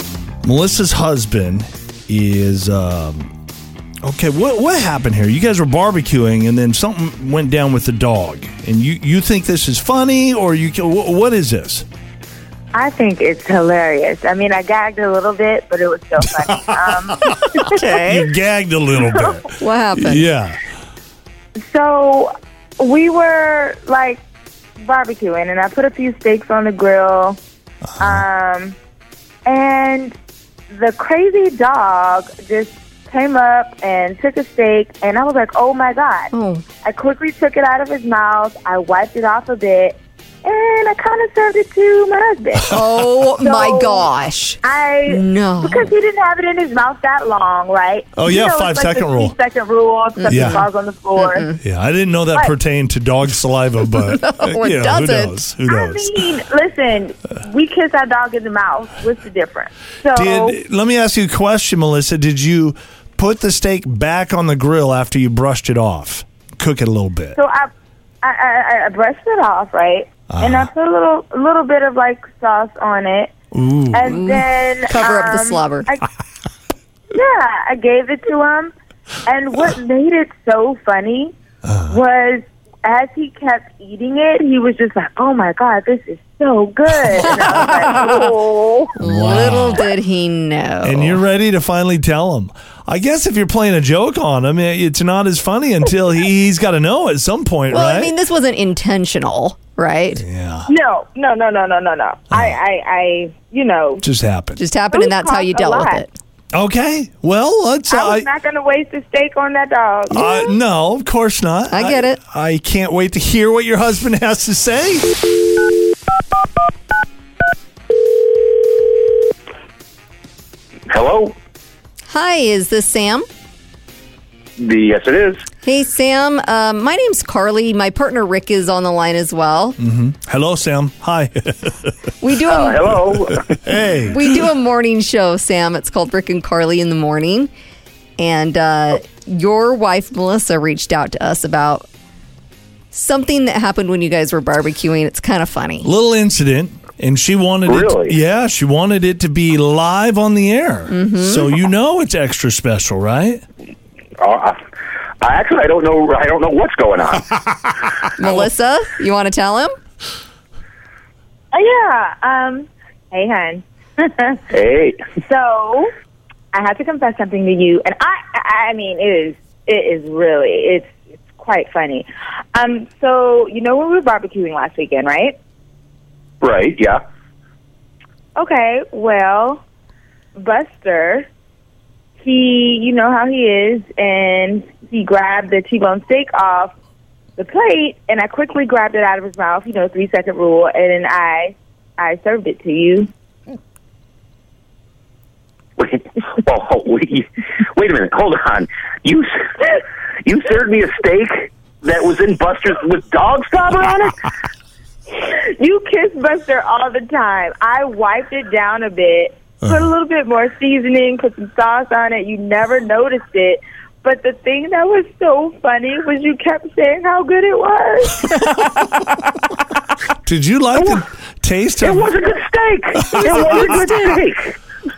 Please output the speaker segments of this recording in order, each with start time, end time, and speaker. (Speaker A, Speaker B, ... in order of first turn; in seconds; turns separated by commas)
Speaker A: 0.4-3.3, Speaker A: 4.0-11.9, Speaker B: 12.7-17.8, Speaker C: 17.6-18.3, Speaker A: 18.0-20.6, Speaker C: 19.6-20.2, Speaker B: 21.7-24.2, Speaker B: 24.8-27.4, Speaker A: 28.0-28.2, Speaker B: 28.0-28.8, Speaker B: 29.5-30.1, Speaker B: 30.7-42.8, Speaker C: 36.3-36.7, Speaker C: 42.7-45.9, Speaker B: 43.4-44.1, Speaker B: 44.6-51.5, Speaker A: 48.1-49.4, Speaker C: 50.2-50.7, Speaker A: 50.3-50.6, Speaker C: 51.2-51.6, Speaker A: 51.6-56.3, Speaker C: 54.0-55.4, Speaker B: 55.7-60.6, Speaker A: 60.1-67.4, Speaker B: 67.3-67.7, Speaker B: 68.2-73.3, Speaker A: 70.3-70.7, Speaker A: 73.5-74.2, Speaker B: 73.9-76.0, Speaker C: 74.1-75.9, Speaker B: 77.1-78.7, Speaker B: 79.3-81.3, Speaker A: 81.7-82.0, Speaker B: 81.9-89.0, Speaker A: 89.0-89.8, Speaker C: 89.0-91.2, Speaker A: 90.8-98.1, Speaker C: 97.7-100.2, Speaker A: 100.2-100.7, Speaker B: 100.7-104.0, Speaker A: 102.3-102.6, Speaker A: 104.0-104.6, Speaker C: 104.6-106.1, Speaker B: 104.9-106.0, Speaker A: 106.5-108.3, Speaker B: 107.9-110.4, Speaker A: 110.1-115.1, Speaker C: 111.7-112.2, Speaker D: 120.9-121.4, Speaker C: 122.1-123.2, Speaker D: 124.6-125.4, Speaker C: 125.6-129.8, Speaker A: 129.8-131.9, Speaker C: 132.2-133.1, Speaker D: 132.4-133.6, Speaker A: 133.4-134.5, Speaker C: 134.1-137.5, Speaker C: 138.2-141.9, Speaker C: 142.9-145.9, Speaker A: 145.8-153.4, Speaker D: 147.7-148.2, Speaker C: 150.9-151.5, Speaker D: 154.2-154.6, Speaker D: 155.2-157.3, Speaker C: 158.2-159.7, Speaker B: 161.5-164.4, Speaker D: 164.5-165.0, Speaker B: 165.2-165.9, Speaker B: 166.5-175.4, Speaker D: 176.4-177.0, Speaker B: 178.4-179.6, Speaker B: 180.4-181.3, Speaker B: 182.2-186.7, Speaker B: 187.4-193.1, Speaker D: 195.8-204.1, Speaker B: 205.2-218.5, Speaker A: 220.2-222.1, Speaker D: 221.8-224.6, Speaker A: 222.9-224.1